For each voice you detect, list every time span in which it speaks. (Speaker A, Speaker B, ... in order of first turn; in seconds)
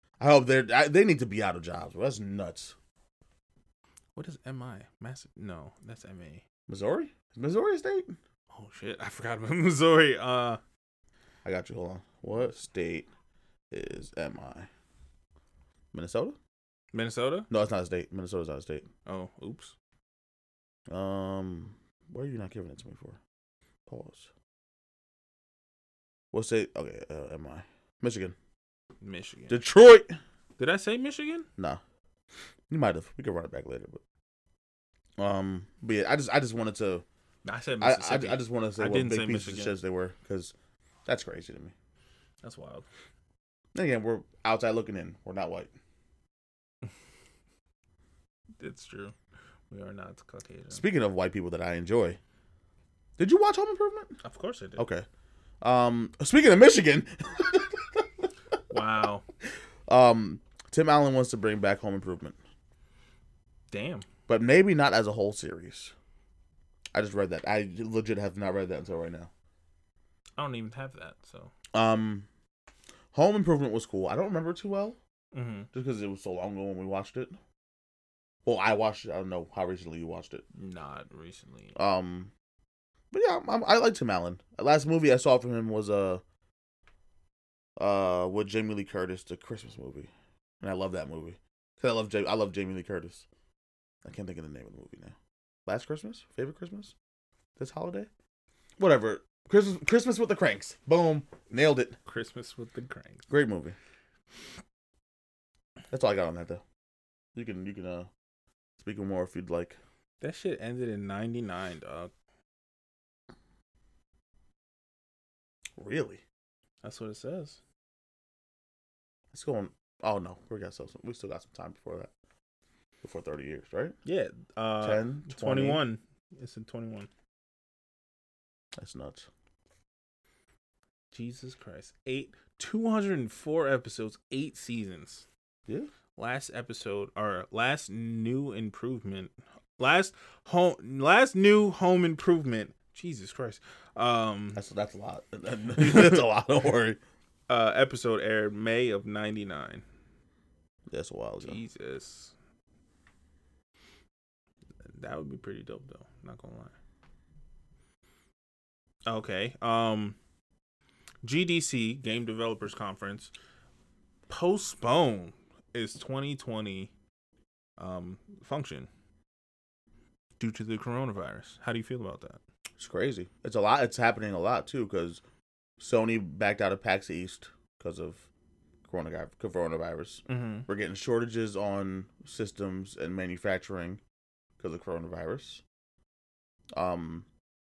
Speaker A: 0.2-2.7, 6.7-8.2, 11.4-13.1, 13.7-14.7, 15.9-16.4, 17.5-18.9, 20.9-23.2, 23.9-24.3, 26.3-28.3, 29.5-30.2, 32.7-34.0, 35.2-37.0, 37.8-40.5, 41.0-41.7, 43.7-45.7, 50.7-52.2, 53.2-54.2, 54.8-55.0, 55.6-58.0, 59.9-62.4, 64.3-65.9, 66.9-69.3, 71.7-72.2, 73.1-75.0, 75.7-77.4, 78.5-80.4, 81.7-82.3, 83.1-86.2, 87.8-93.2, 94.0-95.1, 95.7-96.9, 97.6-98.1, 98.8-102.0, 103.3-103.8, 105.9-106.6, 107.3-108.1, 108.8-109.8, 115.8-116.2, 119.3-122.1, 123.0-124.0, 124.8-125.8, 128.8-129.3, 144.6-147.0, 150.9-151.6, 172.8-175.2, 175.8-178.2, 178.8-184.0, 184.6-185.6, 186.7-187.2
Speaker B: 4.1-6.4, 8.5-10.6, 16.9-17.5, 19.1-19.7, 29.0-29.6, 30.6-31.5, 37.4-39.7, 42.4-42.9, 48.6-49.1, 49.7-50.9, 54.2-54.9, 58.7-59.2, 63.7-64.1, 70.3-71.5, 75.3-75.7, 80.5-81.7, 102.0-103.3, 110.2-112.1, 116.8-117.6, 124.0-127.1, 131.1-135.2, 136.2-144.6, 145.8-146.2, 147.5-149.8, 151.4-152.3, 154.8-156.8, 159.1-160.2, 161.2-163.3, 164.3-166.9, 167.8-168.9, 170.4-172.4, 180.3-180.7